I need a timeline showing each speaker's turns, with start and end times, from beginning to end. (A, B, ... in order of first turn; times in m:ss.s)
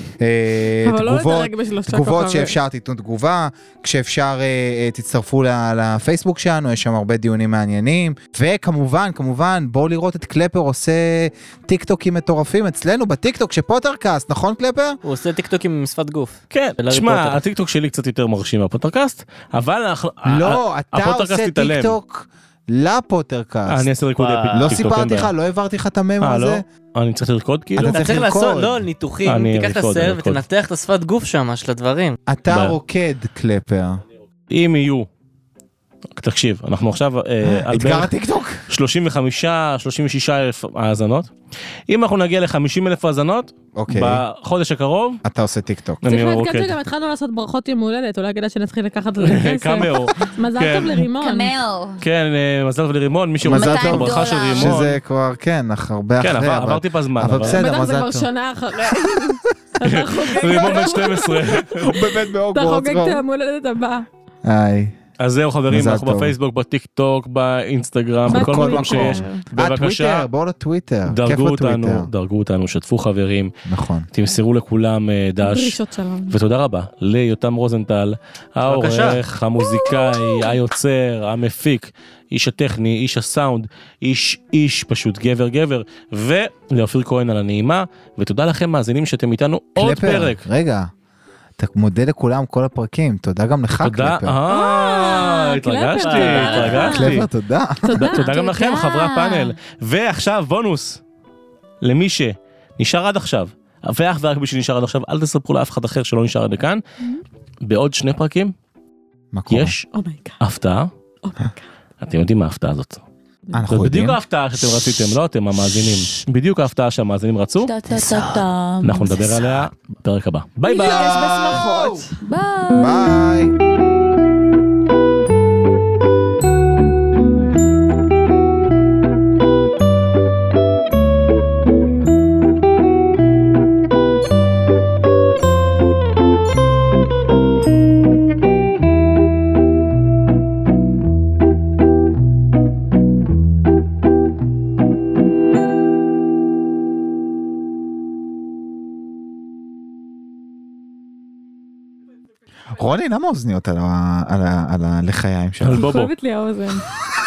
0:00.2-0:15.0 A
0:00.8-0:02.6 B
0:15.0-0:17.4 C
0:16.5-0:22.0 D
0:20.2-0:23.9 A
0:23.7-0:25.3 D
0:24.2-0:24.9 C
0:24.5-0:26.6 A
0:26.2-0:28.1 D
0:27.8-0:28.8 A
0:27.9-0:32.2 C
0:29.2-0:30.4 D
0:32.3-0:34.0 A
0:32.5-0:32.8 D
0:34.5-0:35.1 D
0:36.2-0:38.1 D
0:37.4-0:38.6 A
0:38.7-0:41.3 D
0:41.9-0:45.2 D
0:43.7-0:44.2 A
0:45.2-0:46.0 A
0:46.0-0:46.7 D
0:46.0-0:51.5 B
0:49.2-0:51.0 D
0:51.2-0:52.0 E
0:52.0-0:55.0 D
0:53.4-0:58.3 A
0:53.5-0:54.7 E
0:56.2-0:57.6 D
0:57.4-1:01.5 B
0:58.8-0:59.3 A
0:59.8-1:01.9 D
1:01.8-1:03.2 A
1:02.5-1:04.0 B
1:04.4-1:05.0 A
1:05.2-1:10.3 D
1:05.7-1:06.3 A
1:08.3-1:12.1 A
1:08.3-1:09.4 B
1:11.0-1:13.5 D
1:13.6-1:14.1 A
1:14.1-1:30.4 D
1:15.4-1:16.3 B
1:18.6-1:19.2 C
1:29.8-1:30.9 A
1:31.6-1:34.4 A
1:33.8-1:37.3 D
1:34.5-1:37.2 B
1:36.0-1:36.9 C
1:36.9-1:37.9 A
1:37.9-1:38.3 B
1:37.9-1:41.0 D
1:38.1-1:39.5 E
1:41.8-1:46.8 D
1:47.6-1:48.5 D
1:49.3-1:49.7 A
1:49.5-1:49.9 D
1:49.9-1:50.4 B
1:50.4-1:50.9 D
1:51.2-1:51.6 B
1:52.0-1:53.0 D
1:53.5-1:54.2 A
1:53.7-1:57.7 D
1:57.6-1:59.5 E
1:58.8-2:01.1 D
2:00.6-2:02.1 B
2:00.7-2:02.0 A
2:02.2-2:03.2 E
2:02.7-2:03.5 A
2:32.7-2:35.9 A
2:35.6-2:36.1 D
2:35.7-2:36.8 B